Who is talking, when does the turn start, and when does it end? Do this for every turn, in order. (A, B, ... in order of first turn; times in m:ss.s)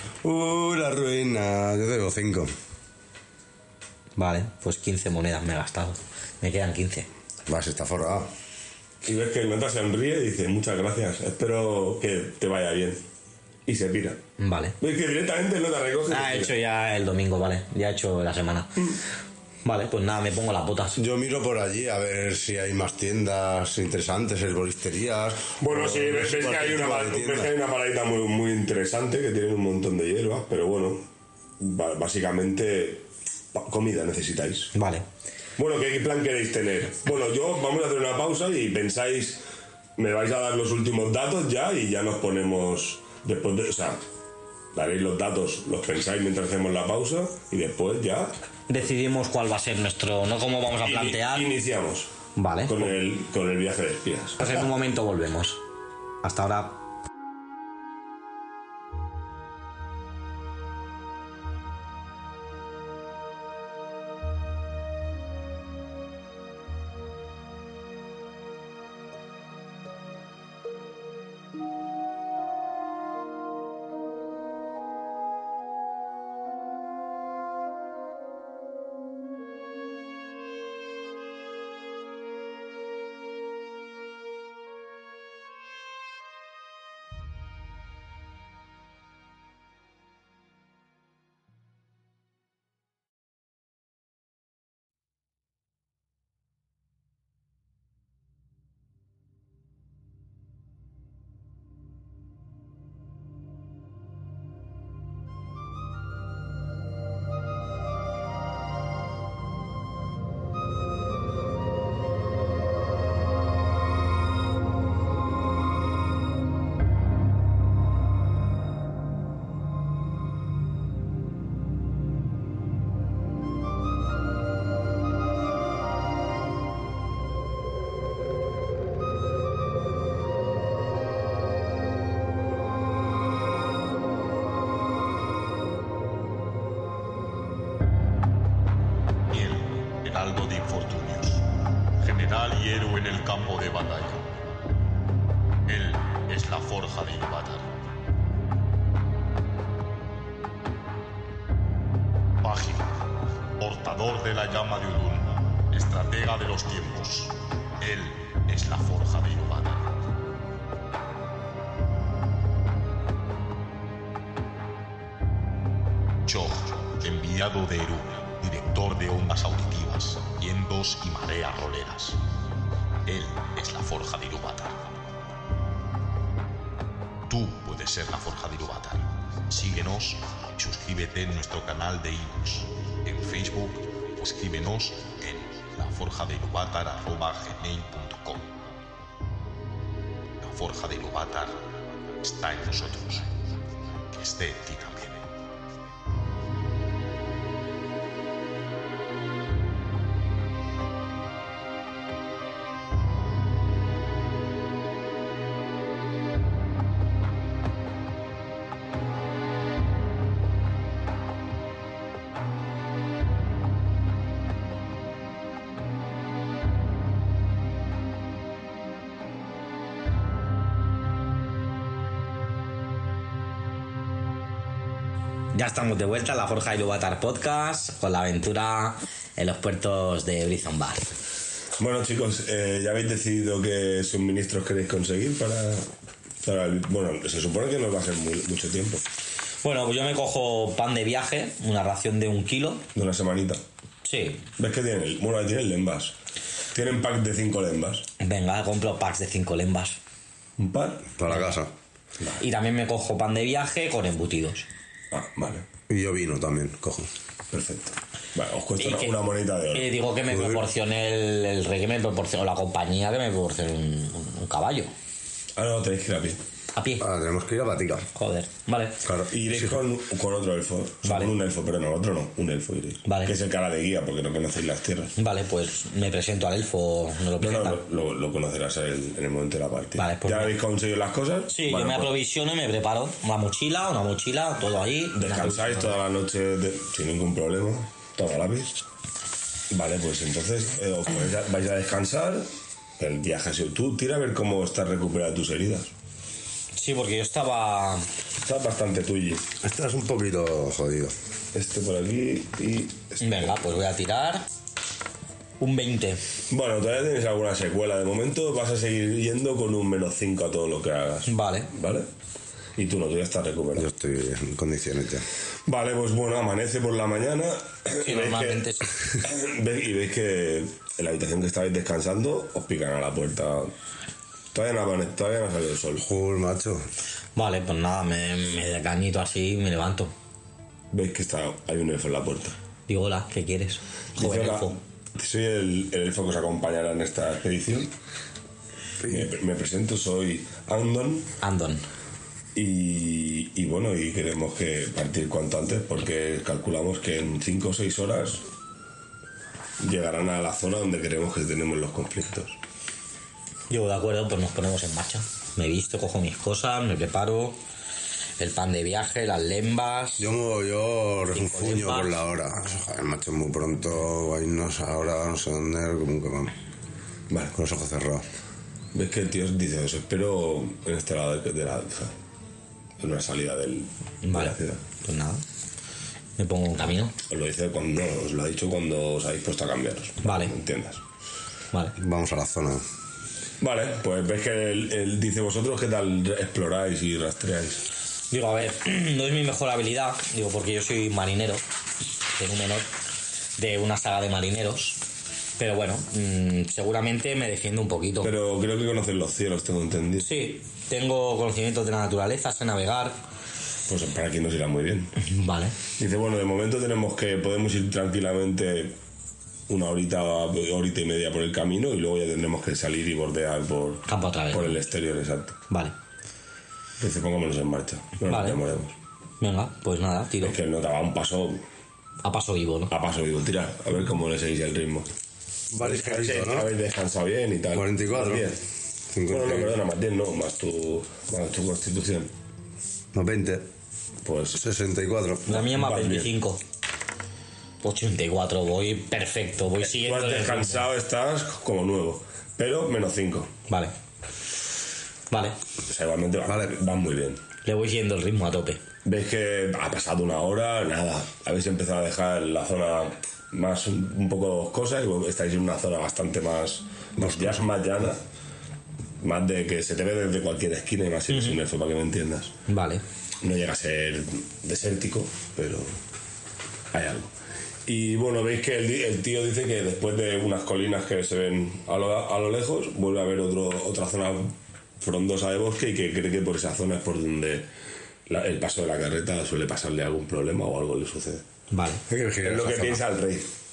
0:00.2-0:02.5 A
0:04.2-0:07.1 B
0:07.5-0:08.3 A
0:09.0-0:13.0 C
0:13.7-0:14.2 C
0:14.4-0:14.8 B
0:14.8-0:16.5 C
0:16.1-0:19.0 B
0:19.6-0:21.0 B
0:21.0-0:27.5 A
0:25.6-0:31.1 C
0:31.6-0:34.7 C
0:34.7-0:35.0 B
0:35.6-0:39.4 C
0:40.0-0:44.0 C
0:44.7-0:48.3 C
0:48.7-0:51.5 B
0:50.8-0:52.1 C
0:52.4-0:53.0 B
0:52.7-0:54.6 C
0:54.4-0:55.6 B
0:56.2-0:56.8 B
2:19.3-2:24.3 D
2:25.7-2:27.8 D
2:32.4-2:33.0 D
2:33.6-2:40.0 D
2:46.3-2:52.2 D
2:53.1-2:54.9 D
2:57.3-3:08.6 D
3:10.4-3:13.4 D
3:14.1-3:15.3 D
3:45.5-3:51.1 B
3:51.8-3:55.9 C
3:56.4-3:59.0 C
3:59.6-4:02.8 B
4:03.0-4:03.6 C
4:04.0-4:04.5 B
4:04.6-4:06.2 C
4:06.7-4:08.1 C
4:08.2-4:10.0 B
4:10.6-4:11.1 C
4:11.2-4:11.7 A
4:12.4-4:14.7 B
4:15.1-4:15.7 C
4:15.9-4:17.1 A
4:17.5-4:19.9 C
4:18.8-4:19.2 B
4:19.7-4:24.9 B
4:20.3-4:20.6 A
4:25.6-4:26.4 C
4:26.8-4:27.0 B
4:27.0-4:28.1 A
4:28.1-4:29.0 B
4:29.0-4:29.8 A
4:29.3-4:35.1 C
4:31.0-4:31.3 B
4:33.1-4:33.3 B
4:35.2-4:37.8 B
4:37.4-4:42.1 C
4:40.0-4:40.6 B
4:41.5-4:45.9 B
4:45.1-4:48.8 C
4:49.7-4:55.9 C
4:56.8-4:58.1 B
4:58.4-4:59.4 C
4:59.6-5:01.1 A
5:01.5-5:03.5 C
5:03.2-5:04.5 B
5:05.6-5:06.2 B
5:06.5-5:12.1 C
5:11.3-5:11.7 B
5:12.8-5:13.9 C
5:13.8-5:15.3 A
5:15.7-5:18.7 C
5:18.0-5:18.9 B
5:19.2-5:23.7 C
5:24.5-5:26.0 C
5:26.0-5:26.9 A
5:27.4-5:30.1 B
5:30.9-5:32.6 C
5:32.9-5:34.8 B
5:34.2-5:37.9 C
5:39.0-5:41.3 C
5:41.4-5:41.8 B
5:42.6-5:48.4 C
5:49.8-5:52.6 C
5:53.7-5:57.6 B
5:58.4-6:00.3 B
6:00.2-6:06.5 A
6:01.3-6:02.2 B
6:07.3-6:07.6 C
6:07.5-6:08.3 A
6:08.9-6:12.2 C
6:13.0-6:14.8 C
6:14.2-6:15.4 B
6:16.4-6:17.2 B
6:17.3-6:21.0 C
6:20.2-6:20.5 B
6:22.0-6:22.8 A
6:23.6-6:27.8 C
6:28.3-6:31.6 B
6:32.4-6:32.9 B
6:33.6-6:35.0 B
6:35.6-6:38.3 B
6:38.2-6:40.3 C
6:40.2-6:43.2 B
6:43.9-6:45.1 C
6:45.2-6:45.8 B
6:45.9-6:49.0 C
6:49.7-6:55.6 C
6:54.1-6:54.8 B
6:57.0-6:59.0 C
6:58.3-6:58.6 B
6:59.4-7:00.6 B
7:00.4-7:01.6 C
7:02.2-7:02.9 B
7:02.9-7:05.1 C
7:05.7-7:06.7 A
7:05.8-7:08.6 C
7:07.7-7:08.6 A
7:09.1-7:09.8 A
7:09.3-7:12.3 C
7:13.1-7:13.7 A
7:14.2-7:14.6 C
7:14.6-7:15.6 A
7:15.5-7:16.6 B
7:15.5-7:16.3 C
7:17.8-7:20.9 B
7:19.8-7:23.5 C
7:23.7-7:23.9 B
7:25.3-7:25.6 B
7:25.9-7:27.4 C
7:26.5-7:26.7 A
7:27.6-7:28.8 B
7:29.0-7:38.2 C
7:37.2-7:37.6 A
7:39.2-7:42.6 C
7:41.3-7:41.6 B
7:42.7-7:43.0 B
7:43.4-7:45.9 C
7:46.9-7:47.3 C
7:47.9-7:57.7 C
7:58.3-8:01.4 C
8:01.7-8:02.0 B
8:02.1-8:03.0 A
8:02.4-8:03.5 C